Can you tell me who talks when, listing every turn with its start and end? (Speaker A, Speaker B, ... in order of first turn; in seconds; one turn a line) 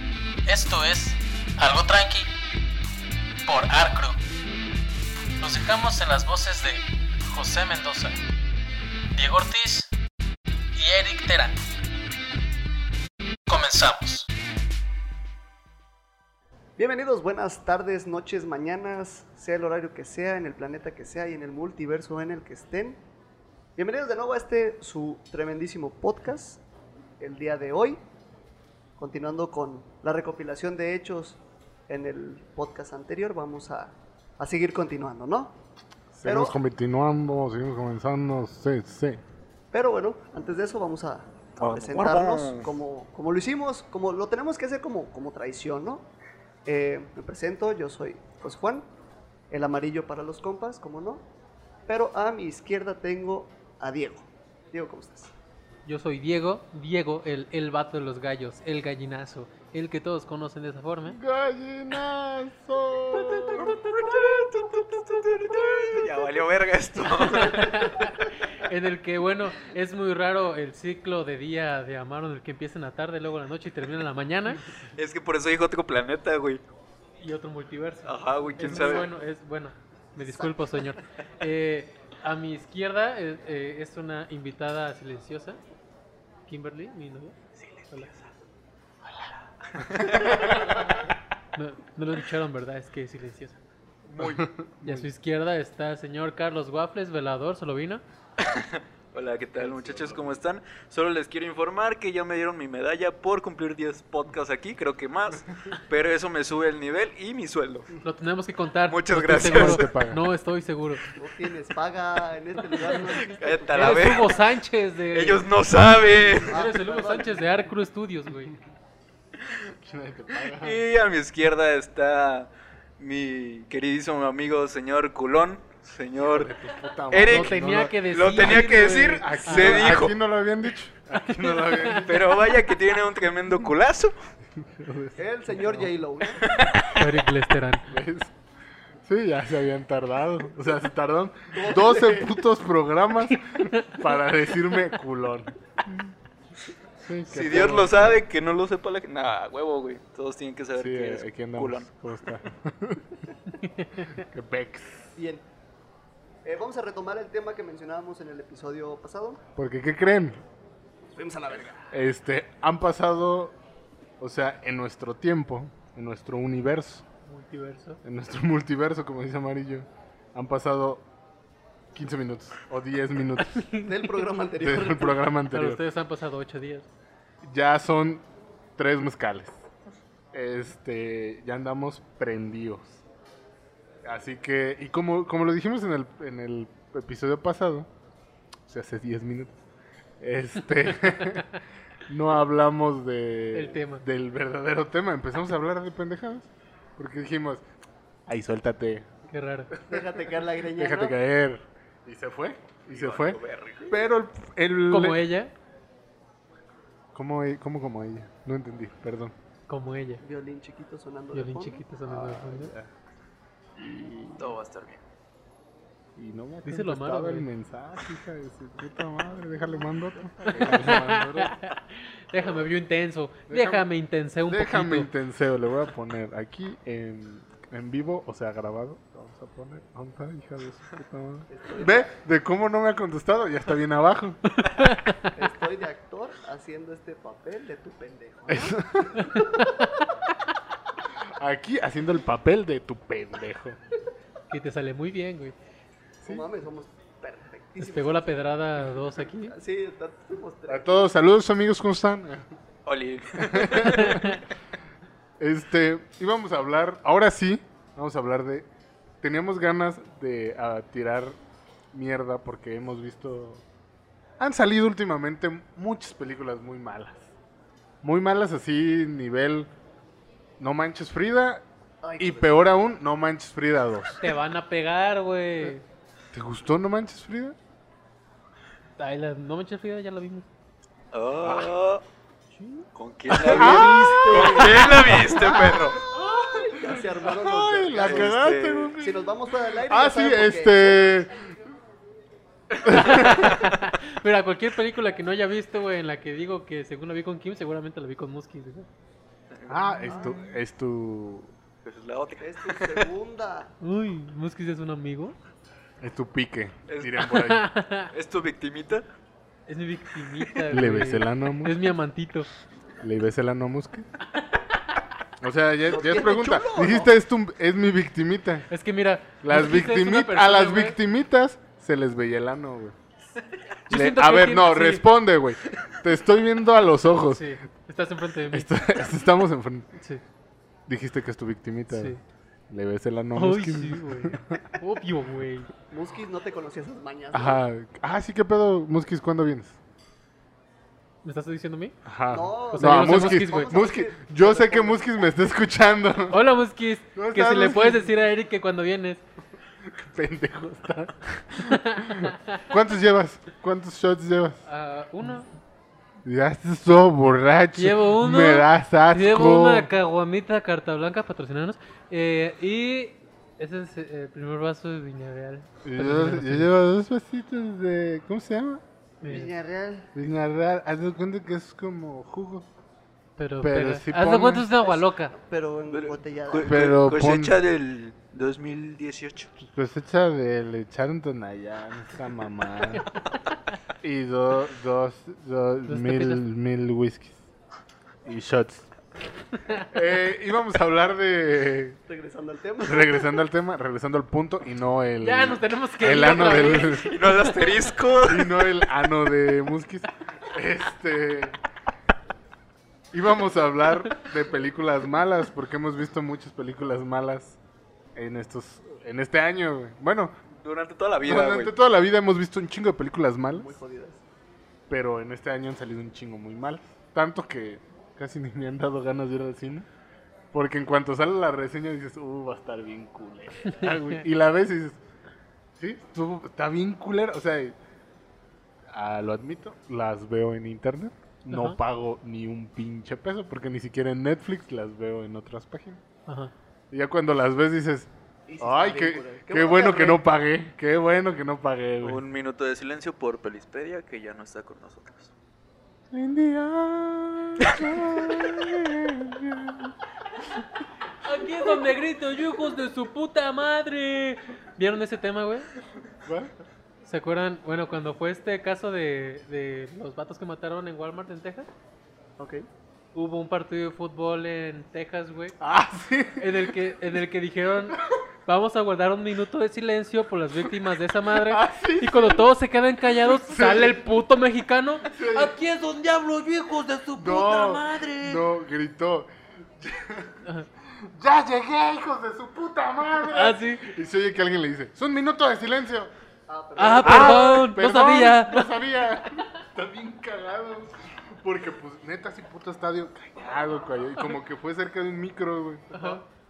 Speaker A: 0.5-2.3
Speaker A: 3.5-4.2
Speaker A: 5.4-8.2
Speaker A: 9.1-9.9
Speaker A: 10.8-11.6
Speaker A: 13.5-14.3
Speaker B: 16.8-23.0
Speaker B: 23.8-26.6
Speaker B: 27.2-28.0
Speaker B: 29.0-35.5
Speaker C: 36.1-39.2
Speaker B: 36.2-36.6
Speaker B: 39.7-46.1
Speaker D: 41.6-42.7
Speaker B: 46.7-48.9
Speaker B: 49.5-51.2
Speaker B: 51.9-55.3
Speaker E: 55.9-61.2
Speaker C: 61.1-63.7
Speaker D: 63.1-68.0
Speaker B: 63.2-64.5
Speaker E: 67.2-74.6
Speaker D: 74.9-76.6
Speaker E: 77.2-85.6
Speaker D: 78.1-79.1
Speaker E: 86.5-87.4
Speaker D: 87.6-88.3
Speaker D: 89.7-90.9
Speaker C: 90.0-90.6
Speaker E: 91.5-93.6
Speaker D: 94.0-94.5
Speaker C: 94.2-95.1
Speaker E: 94.8-98.0
Speaker D: 98.4-107.9
Speaker C: 99.6-100.3
Speaker E: 108.0-111.0
Speaker D: 108.9-109.8
Speaker C: 109.3-110.2
Speaker B: 111.2-114.4
Speaker D: 113.1-114.4
Speaker E: 113.8-115.4
Speaker D: 115.1-116.7
Speaker B: 116.4-117.4
Speaker E: 116.5-118.5
Speaker C: 119.5-120.8
Speaker D: 120.5-122.5
Speaker D: 123.0-126.5
Speaker C: 126.2-132.5
Speaker D: 127.1-130.2
Speaker E: 127.2-130.0
Speaker E: 131.4-132.1
Speaker D: 131.9-134.1
Speaker C: 134.6-135.9
Speaker B: 135.2-136.6
Speaker D: 136.4-137.0
Speaker E: 136.9-137.9
Speaker C: 137.9-138.3
Speaker C: 139.0-146.1
Speaker B: 141.5-142.3
Speaker C: 147.0-148.2
Speaker D: 147.3-152.1
Speaker C: 150.8-153.2
Speaker E: 153.6-154.3
Speaker C: 154.1-155.1
Speaker B: 155.2-155.4
Speaker B: 156.4-159.4
Speaker C: 159.6-160.4
Speaker B: 161.1-161.9
Speaker C: 161.9-163.6
Speaker C: 164.2-167.1
Speaker E: 167.2-168.0
Speaker C: 168.0-171.0
Speaker C: 171.9-173.6
Speaker E: 173.4-174.3
Speaker B: 173.8-175.2
Speaker C: 174.6-175.8
Speaker E: 175.5-176.9
Speaker C: 177.4-178.2
Speaker C: 178.8-179.6
Speaker C: 180.3-183.0
Speaker C: 184.0-187.9
Speaker C: 188.7-189.6
Speaker C: 190.2-197.6
Speaker E: 193.5-194.1
Speaker C: 198.3-199.1
Speaker E: 199.3-199.7
Speaker C: 199.7-205.2
Speaker B: 199.9-201.2
Speaker D: 202.9-203.9
Speaker E: 204.9-205.5
Speaker C: 207.1-209.3
Speaker E: 209.7-210.2
Speaker B: 210.2-212.7
Speaker E: 211.3-212.7
Speaker C: 212.6-212.9
Speaker C: 213.8-214.5
Speaker D: 214.4-215.0
Speaker C: 216.2-221.6
Speaker E: 216.7-217.5
Speaker B: 219.8-220.9
Speaker E: 220.6-225.1
Speaker C: 223.5-223.8
Speaker C: 224.5-234.6
Speaker B: 231.5-232.1
Speaker E: 234.8-235.3
Speaker B: 235.3-239.9
Speaker C: 238.5-239.3
Speaker C: 241.2-243.8
Speaker E: 244.5-245.6
Speaker C: 246.2-246.5
Speaker B: 246.2-248.3
Speaker E: 247.8-249.5
Speaker B: 249.4-251.1
Speaker C: 250.7-252.6
Speaker D: 252.9-254.2
Speaker C: 253.4-254.4
Speaker E: 253.9-254.4
Speaker C: 255.4-258.7
Speaker C: 259.2-261.4
Speaker C: 261.9-263.6
Speaker C: 264.4-267.3
Speaker C: 268.0-269.7
Speaker C: 270.6-271.6
Speaker B: 272.0-272.7
Speaker C: 272.2-274.2
Speaker E: 274.2-275.8
Speaker C: 276.3-277.6
Speaker E: 279.0-280.5
Speaker D: 281.1-282.0
Speaker C: 281.4-281.7
Speaker E: 282.6-282.9
Speaker D: 282.9-286.0
Speaker C: 283.3-291.6
Speaker B: 283.3-288.4
Speaker D: 288.0-288.9
Speaker B: 289.0-291.1
Speaker C: 292.8-293.4
Speaker E: 292.9-298.9
Speaker D: 293.3-293.8
Speaker D: 299.5-300.1
Speaker C: 299.7-301.5
Speaker B: 300.1-300.4
Speaker D: 301.8-303.1
Speaker B: 302.4-303.7
Speaker E: 303.8-305.4
Speaker C: 306.0-307.7
Speaker D: 306.9-307.3
Speaker E: 307.3-308.1
Speaker D: 308.1-309.1
Speaker E: 309.7-312.5
Speaker C: 310.7-311.8
Speaker C: 313.0-314.1
Speaker C: 315.4-318.7
Speaker B: 315.9-317.1
Speaker E: 318.7-321.0
Speaker C: 319.4-322.9
Speaker E: 323.9-325.1
Speaker C: 323.9-327.5
Speaker E: 327.3-328.7
Speaker C: 328.5-329.9
Speaker C: 330.9-332.2
Speaker E: 331.9-332.2
Speaker C: 332.7-334.7
Speaker E: 333.4-335.7
Speaker B: 335.9-337.6
Speaker C: 337.3-339.8
Speaker E: 341.2-342.0
Speaker C: 342.1-346.4
Speaker B: 342.3-345.1
Speaker E: 342.7-343.8
Speaker E: 346.3-349.2
Speaker C: 347.1-348.1
Speaker C: 349.8-354.6
Speaker E: 351.6-352.6
Speaker E: 354.7-355.5
Speaker C: 356.2-359.9
Speaker E: 357.8-366.7
Speaker C: 365.8-368.8
Speaker E: 369.2-369.5
Speaker B: 369.3-370.1
Speaker C: 370.1-372.7
Speaker E: 373.4-375.3
Speaker C: 373.6-374.7
Speaker B: 374.8-376.9
Speaker D: 375.9-379.5
Speaker C: 376.6-377.6
Speaker C: 379.7-383.1
Speaker C: 384.0-387.4
Speaker E: 385.9-386.4
Speaker C: 388.2-388.9
Speaker C: 389.9-392.0
Speaker B: 392.1-393.4
Speaker C: 392.8-397.2
Speaker E: 395.2-397.9
Speaker D: 396.8-398.8
Speaker C: 398.2-401.6
Speaker C: 403.1-407.6
Speaker C: 408.1-410.3
Speaker D: 410.6-411.7
Speaker C: 411.2-413.8
Speaker B: 413.6-414.2
Speaker C: 414.9-419.9
Speaker C: 420.5-425.0
Speaker C: 425.8-427.8
Speaker C: 428.9-436.0
Speaker E: 431.5-431.8
Speaker E: 436.3-436.5
Speaker C: 436.9-438.1
Speaker B: 438.5-440.2
Speaker C: 438.6-442.2
Speaker D: 442.0-445.3
Speaker C: 446.1-449.9
Speaker D: 447.6-447.9
Speaker E: 451.2-455.7
Speaker C: 456.2-456.5
Speaker E: 457.0-461.7
Speaker B: 462.4-462.7
Speaker E: 463.1-465.6
Speaker C: 465.6-466.8
Speaker E: 466.4-478.4
Speaker C: 471.3-472.5
Speaker C: 473.1-474.0
Speaker C: 475.0-475.6
Speaker C: 477.1-486.1
Speaker E: 483.3-483.9
Speaker B: 486.5-487.6
Speaker E: 486.8-488.7
Speaker C: 486.9-495.9
Speaker B: 495.9-496.2
Speaker E: 495.9-496.2